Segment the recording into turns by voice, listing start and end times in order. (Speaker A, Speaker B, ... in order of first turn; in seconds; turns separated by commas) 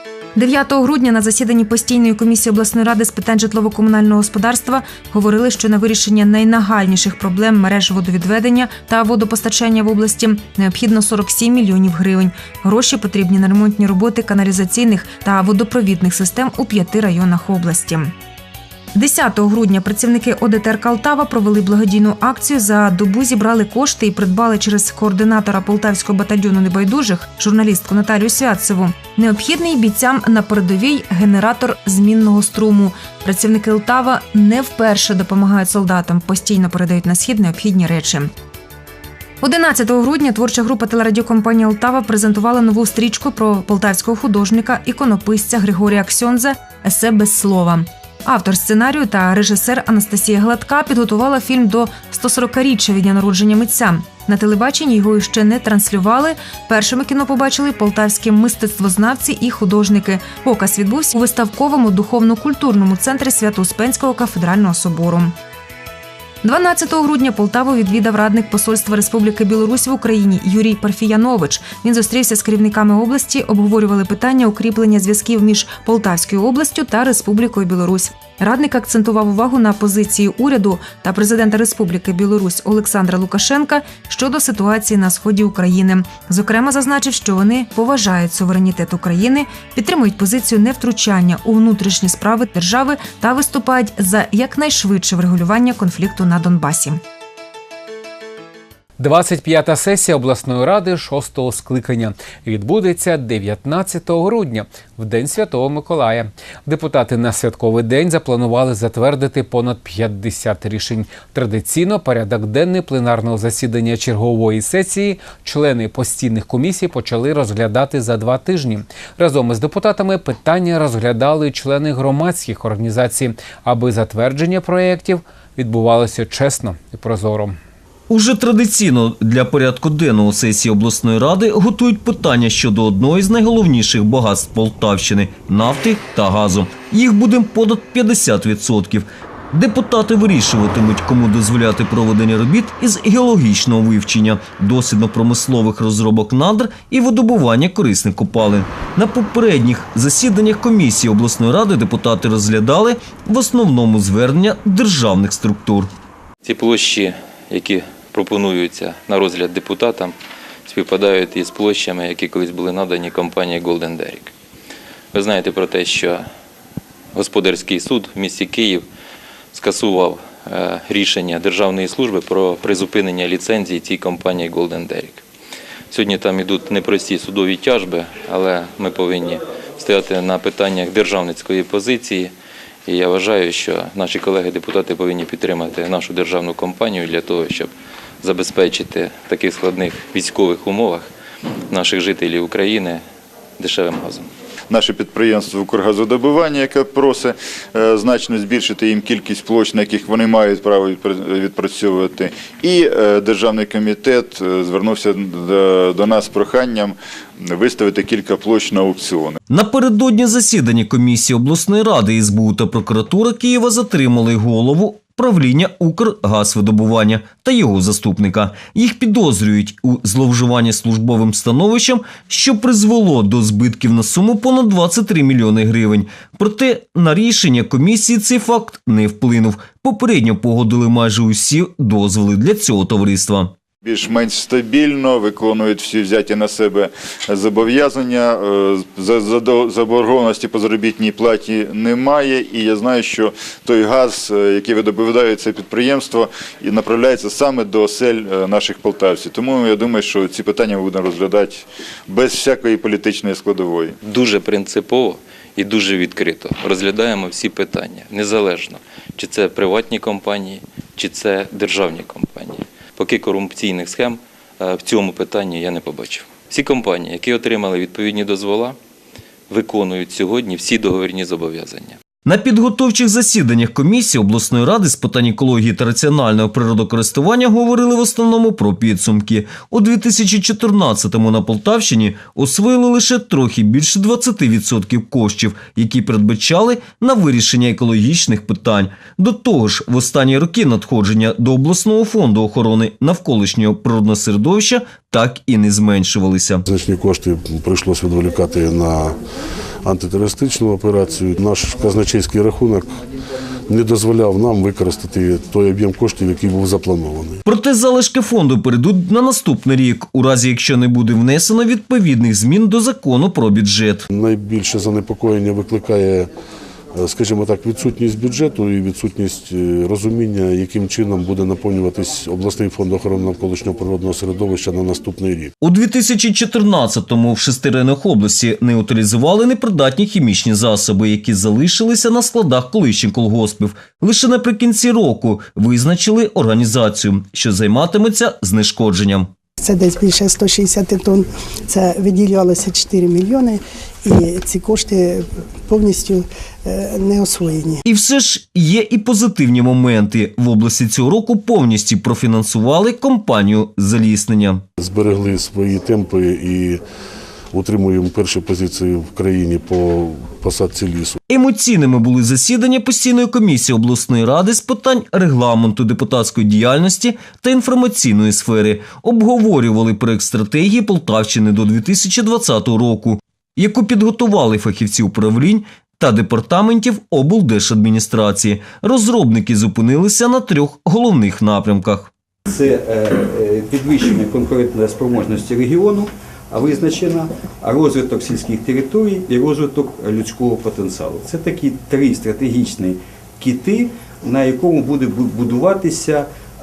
Speaker A: 0.3-18.1, Speaker A: 18.9-38.3, Speaker A: 39.4-65.3, Speaker A: 66.4-97.0, Speaker B: 99.0-127.6, Speaker C: 128.1-155.9, Speaker D: 156.4-164.3, Speaker D: 165.1-166.3, Speaker D: 167.1-168.8, Speaker D: 169.5-175.2, Speaker D: 175.9-182.3, Speaker D: 182.8-191.1, Speaker D: 191.7-193.0, Speaker D: 193.6-194.3, Speaker E: 194.7-209.4, Speaker C: 209.5-233.5, Speaker E: 233.8-253.9, Speaker D: 254.0-268.8, Speaker D: 269.5-272.0, Speaker C: 272.2-296.6, Speaker F: 296.6-299.2, Speaker F: 299.8-303.0, Speaker F: 303.7-307.4, Speaker C: 307.4-314.1, Speaker F: 314.1-316.3, Speaker F: 316.9-325.5, Speaker C: 325.6-339.3, Speaker G: 339.6-345.2, Speaker G: 345.7-347.8, Speaker C: 347.9-354.6, Speaker F: 354.8-356.8, Speaker F: 357.5-361.2, Speaker C: 361.3-382.1, Speaker H: 382.5-386.6, Speaker H: 387.9-388.5, Speaker H: 389.5-389.9, Speaker H: 390.6-392.3, Speaker H: 393.4-393.9, Speaker H: 394.5-395.7